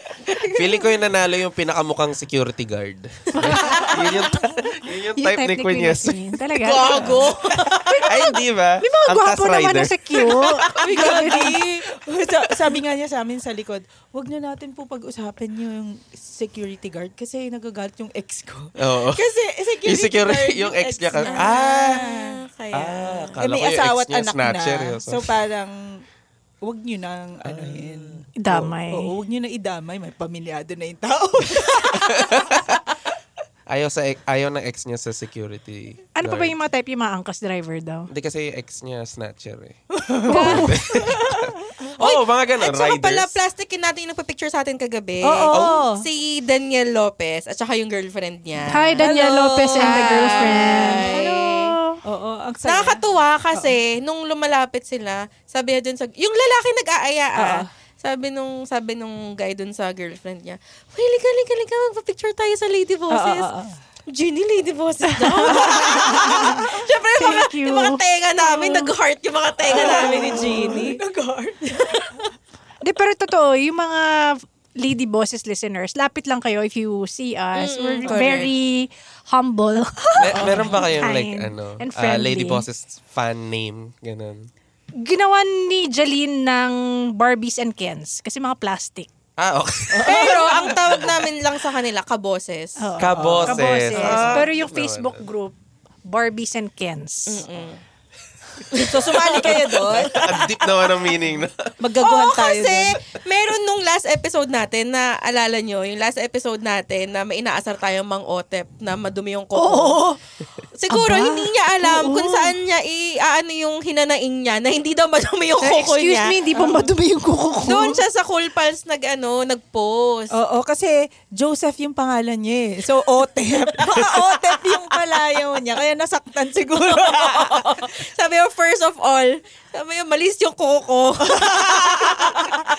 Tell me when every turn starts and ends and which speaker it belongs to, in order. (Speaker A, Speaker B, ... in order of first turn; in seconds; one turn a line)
Speaker A: 0.3-0.7
Speaker B: 0.5-7.1
Speaker C: 3.4-3.9
Speaker C: 5.2-7.1
Speaker D: 6.6-8.0
Speaker A: 7.0-7.3
Speaker C: 7.9-11.6
Speaker B: 8.0-10.4
Speaker D: 10.8-11.7
Speaker A: 10.9-22.3
Speaker B: 18.8-22.0
Speaker D: 21.2-23.4
Speaker B: 22.7-25.3
Speaker A: 23.4-26.0
Speaker A: 26.6-32.4
Speaker B: 27.4-28.2
Speaker C: 28.4-29.1
Speaker B: 31.9-32.7
Speaker B: 33.7-36.5
Speaker C: 36.2-38.1
Speaker B: 38.1-43.4
Speaker A: 40.0-41.9
Speaker C: 40.3-40.7
Speaker D: 42.0-49.0
Speaker A: 45.2-46.0
Speaker B: 45.5-45.8
Speaker C: 48.7-52.0
Speaker A: 49.0-51.1
Speaker D: 49.8-51.7
Speaker A: 52.0-53.0
Speaker D: 52.6-63.5
Speaker A: 57.4-57.7
Speaker A: 63.1-63.8
Speaker D: 64.1-71.0
Speaker C: 65.3-68.8
Speaker A: 65.4-66.6
Speaker A: 69.7-72.1
Speaker C: 72.8-82.6
Speaker D: 77.6-78.5
Speaker A: 78.0-78.5
Speaker B: 80.2-84.5
Speaker D: 80.4-80.7
Speaker A: 80.4-80.8
Speaker C: 85.0-89.1
Speaker B: 89.4-90.2
Speaker A: 89.9-91.0
Speaker D: 90.0-92.9
Speaker C: 92.8-97.4
Speaker B: 93.0-95.2
Speaker A: 93.1-94.5
Speaker D: 97.3-97.8
Speaker D: 98.7-99.9
Speaker A: 98.8-100.7
Speaker B: 100.2-101.7
Speaker A: 101.8-102.9
Speaker D: 102.0-110.0
Speaker C: 109.6-110.2
Speaker D: 110.8-116.4
Speaker C: 110.9-112.5
Speaker C: 115.6-118.0
Speaker A: 116.6-116.9
Speaker D: 117.7-120.3
Speaker A: 120.3-127.9
Speaker D: 124.7-125.2
Speaker D: 126.9-132.6
Speaker A: 131.2-132.4